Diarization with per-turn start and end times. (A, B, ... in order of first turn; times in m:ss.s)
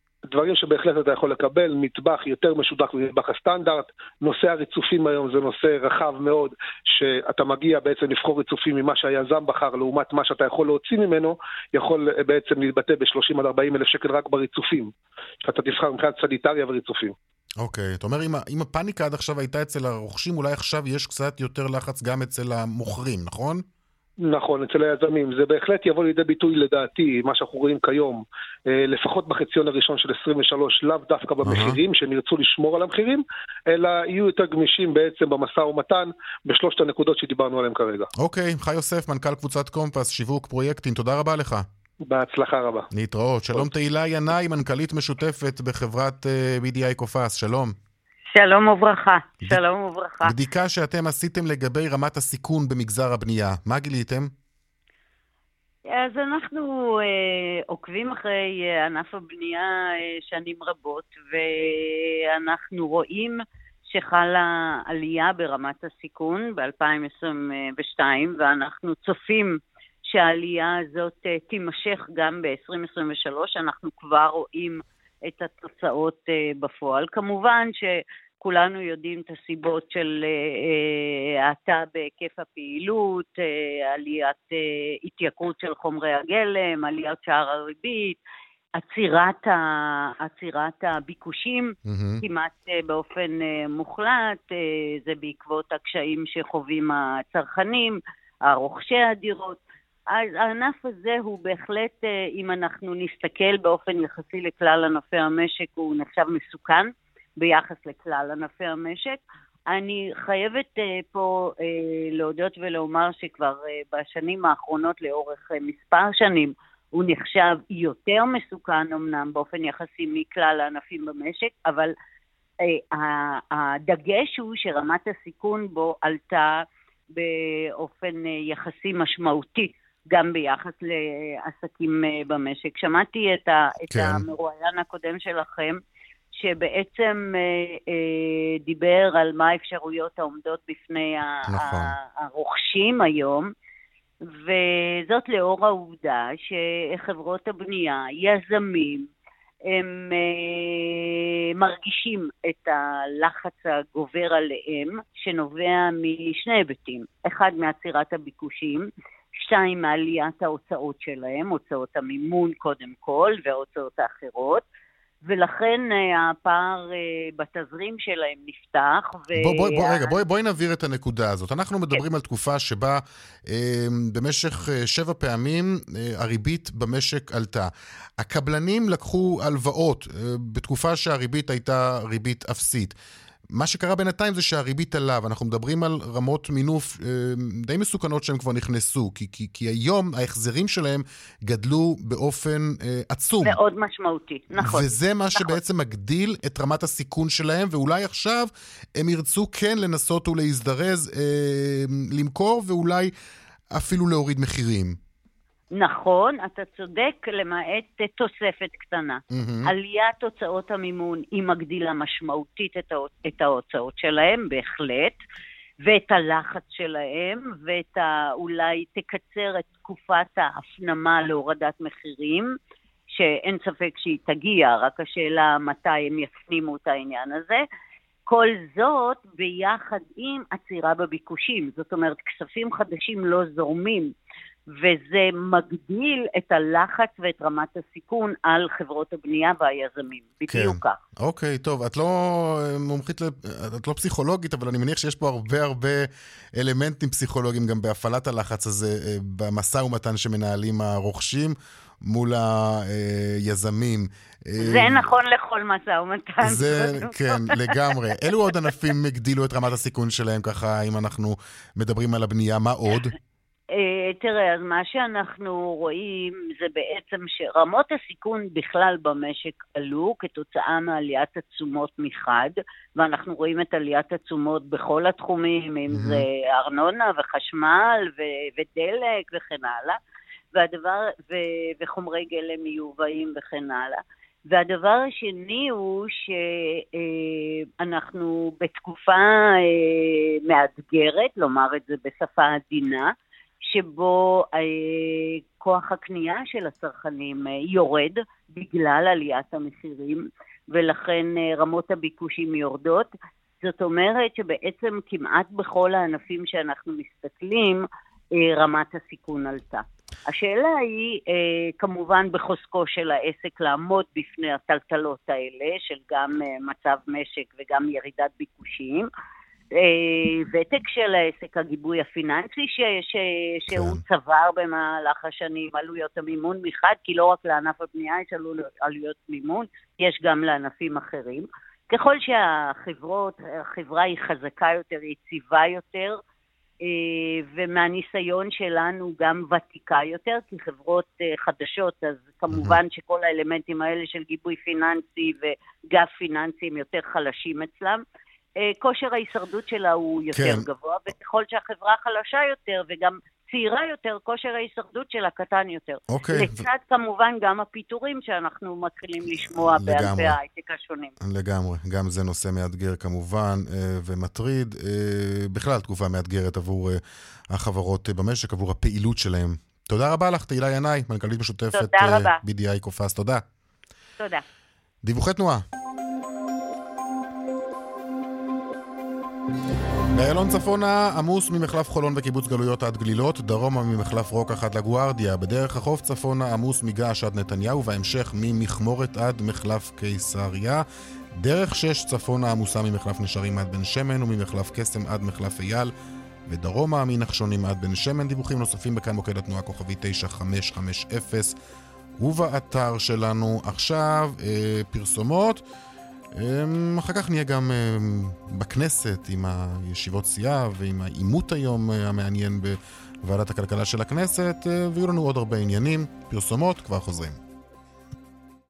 0:00.3-0:14.9 A
0:15.4-0:17.2 A
0:17.6-0:23.6 B
0:24.2-0:38.1 A
0:31.4-0:31.8 B
0:38.2-0:41.7 B
0:42.0-0:42.9 A
0:42.9-0:47.8 B
0:48.3-0:50.3 C
0:50.2-0:54.3 B
0:55.9-1:03.4 C
1:03.9-1:28.2 C
1:28.8-2:01.9 C
1:31.9-1:32.2 B
2:02.6-2:06.6 C
2:07.2-2:15.8 C
2:13.9-2:14.2 B
2:16.4-2:23.5 C
2:21.5-2:21.9 B
2:24.3-2:29.1 C
2:29.7-2:44.6 C
2:45.3-2:50.2 C
2:49.4-3:03.0 B
3:03.5-3:13.6 B
3:13.4-3:14.9 C
3:14.6-3:23.1 B
3:23.7-3:25.0 B
3:25.7-3:35.2 C
3:29.3-3:29.7 B
3:35.8-3:42.5 C
3:43.1-3:47.6 C
3:48.3-3:54.1 C
3:54.8-4:01.0 C
4:00.5-4:15.1 B
4:14.6-4:17.2 C
4:16.4-4:23.1 B
4:23.7-4:40.0 C
4:35.9-4:36.2 B
4:40.5-4:53.1 C
4:53.7-5:03.1 C
5:03.6-5:07.8 C
5:08.4-5:19.1 C
5:19.8-5:36.2 C
5:23.7-5:24.0 B
5:36.8-5:48.0 C
5:42.5-5:42.8 B
5:48.6-6:01.1 C
5:50.3-5:50.7 B
5:56.1-5:56.7 B
5:59.5-6:00.4 B
6:01.2-6:13.4 B
6:11.7-6:12.4 C
6:14.2-6:14.4 C
6:15.0-6:15.6 B
6:20.1-6:30.8 B
6:31.4-6:35.9 B
6:36.5-6:41.6 B
6:42.2-6:45.6 B
6:46.4-6:57.4 B